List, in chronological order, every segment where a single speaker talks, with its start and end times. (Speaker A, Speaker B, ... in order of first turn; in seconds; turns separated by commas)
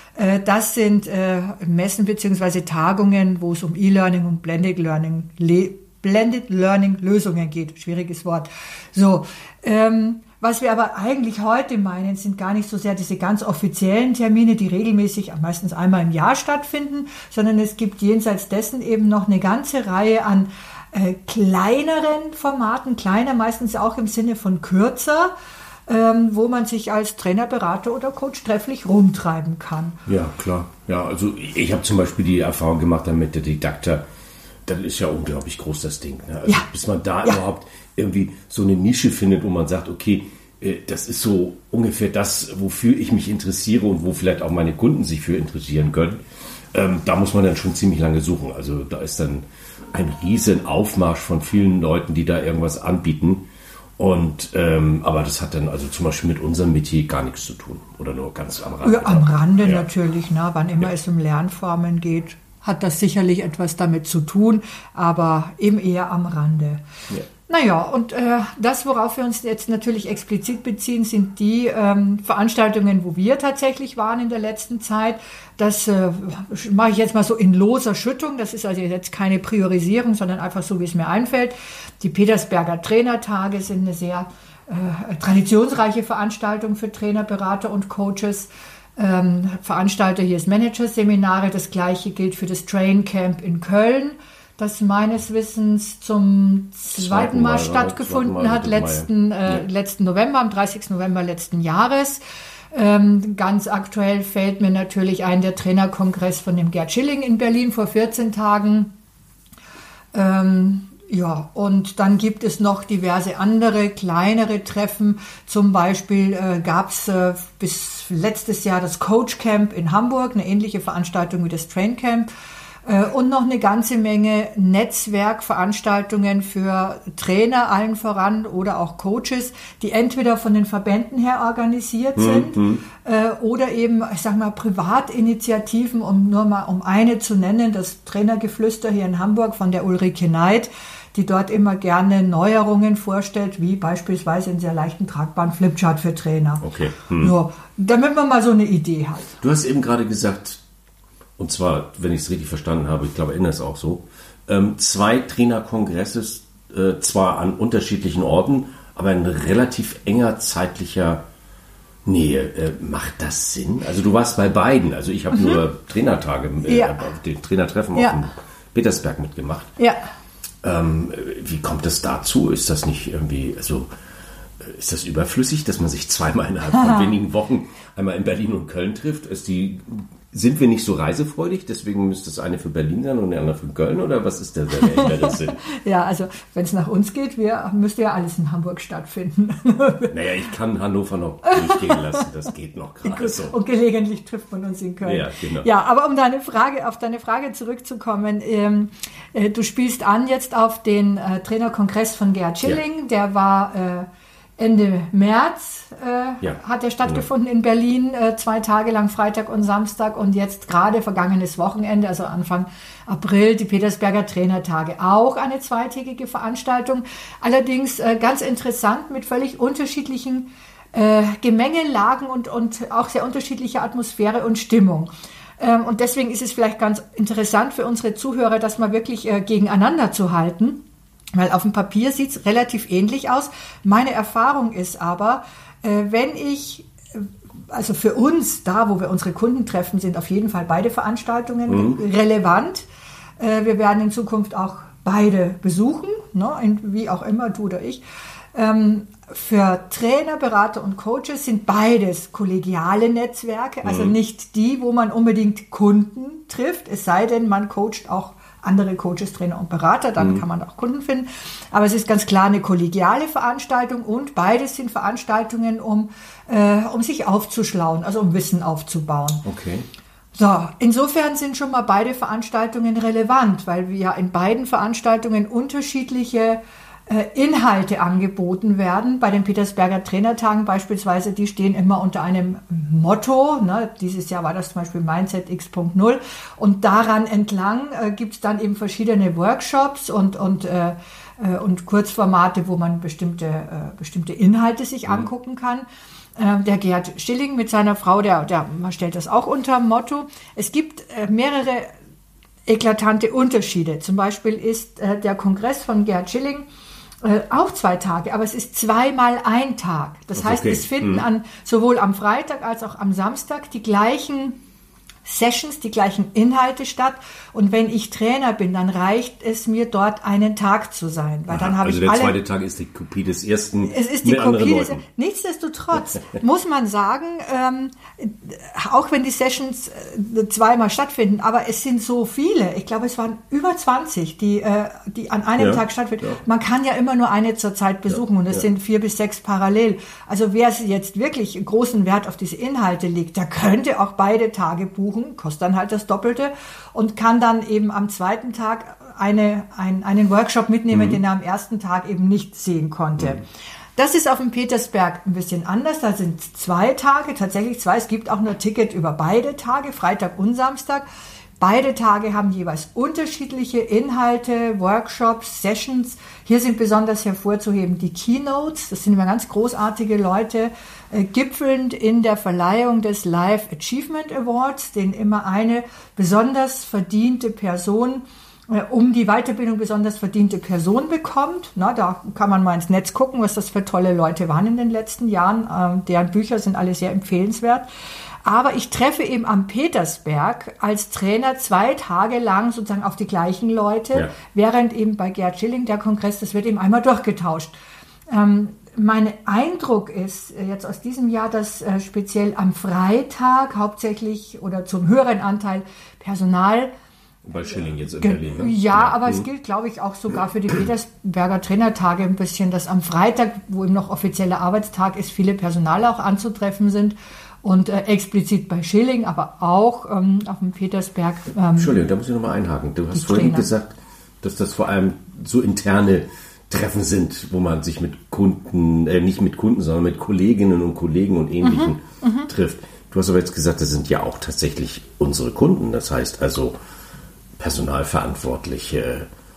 Speaker A: 0.1-25.3, Speaker A: 25.9-30.0, Speaker B: 30.1-34.0, Speaker B: 34.6-46.2, Speaker B: 46.7-53.5, Speaker B: 54.0-59.9, Speaker A: 58.8-66.8, Speaker A: 67.5-102.2, Speaker B: 97.0-99.6, Speaker A: 102.7-108.9, Speaker A: 110.1-122.3, Speaker A: 122.8-149.3, Speaker B: 132.2-132.8, Speaker B: 146.6-147.3, Speaker B: 149.4-150.6, Speaker B: 151.4-161.2, Speaker B: 162.0-169.8, Speaker A: 166.6-167.0, Speaker A: 167.9-168.2, Speaker A: 169.8-170.1, Speaker B: 170.6-173.9, Speaker B: 174.6-185.6, Speaker A: 176.7-177.1, Speaker A: 184.8-190.1, Speaker B: 190.1-193.6, Speaker A: 191.4-192.2, Speaker A: 193.0-230.8, Speaker B: 195.0-195.7, Speaker B: 206.4-207.2, Speaker A: 231.3-242.8, Speaker B: 241.7-242.0, Speaker A: 243.4-248.0, Speaker A: 248.5-269.4, Speaker B: 253.8-254.1, Speaker B: 260.2-260.4, Speaker B: 269.4-269.9, Speaker A: 270.3-301.9, Speaker A: 302.6-306.7, Speaker A: 307.2-314.6, Speaker B: 310.3-311.3, Speaker A: 315.2-322.4, Speaker B: 321.5-325.0, Speaker A: 323.8-353.4, Speaker B: 335.6-336.4, Speaker B: 350.9-351.2, Speaker A: 353.9-361.1, Speaker A: 361.6-387.9, Speaker A: 388.4-397.7, Speaker A: 398.3-406.9, Speaker B: 407.4-409.4, Speaker A: 408.2-421.9, Speaker B: 421.8-436.8, Speaker A: 423.1-423.7, Speaker A: 431.6-432.5, Speaker B: 437.6-439.3